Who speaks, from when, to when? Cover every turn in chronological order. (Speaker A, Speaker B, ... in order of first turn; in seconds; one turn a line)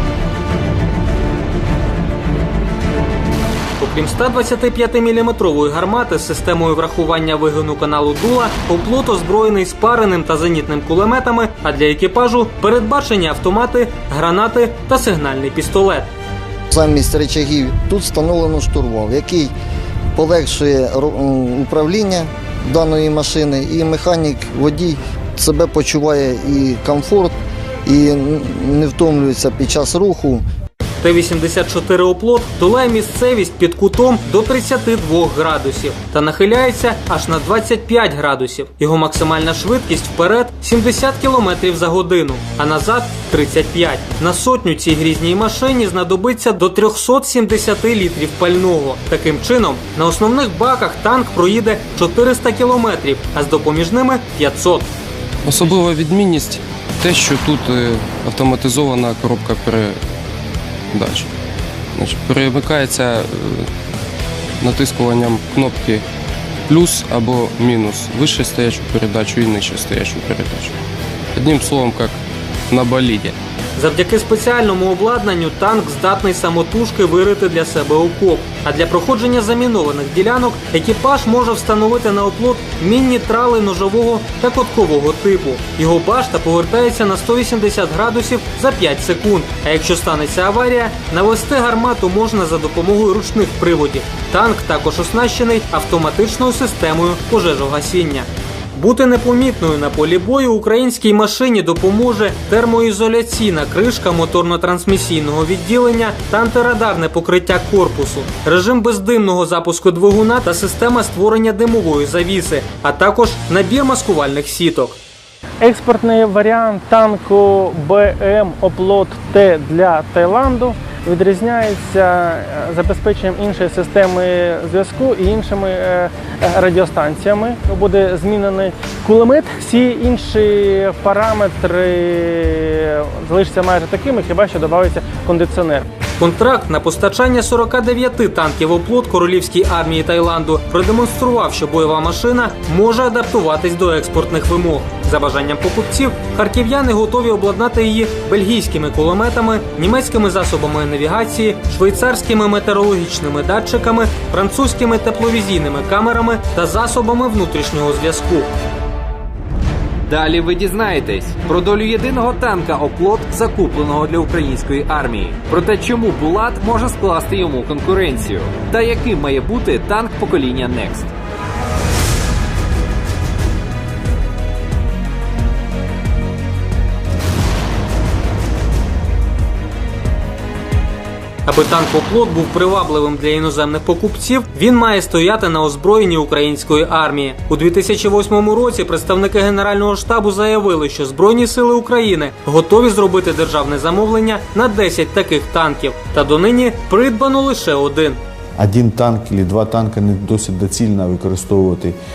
Speaker A: 3.8-16.1
Speaker B: 16.7-19.5
Speaker B: 20.1-27.3
Speaker B: 27.9-30.4
Speaker A: 31.0-54.9
Speaker C: 55.4-60.0
Speaker C: 60.9-61.3
Speaker C: 61.9-63.7
Speaker C: 64.6-66.0
Speaker C: 66.7-70.8
Speaker C: 71.4-72.2
Speaker C: 72.7-73.3
Speaker A: 73.8-115.0
Speaker D: 115.6-135.8
Speaker A: 136.2-158.5
Speaker E: 160.1-171.1
Speaker A: 181.4-198.2
Speaker F: 198.6-202.0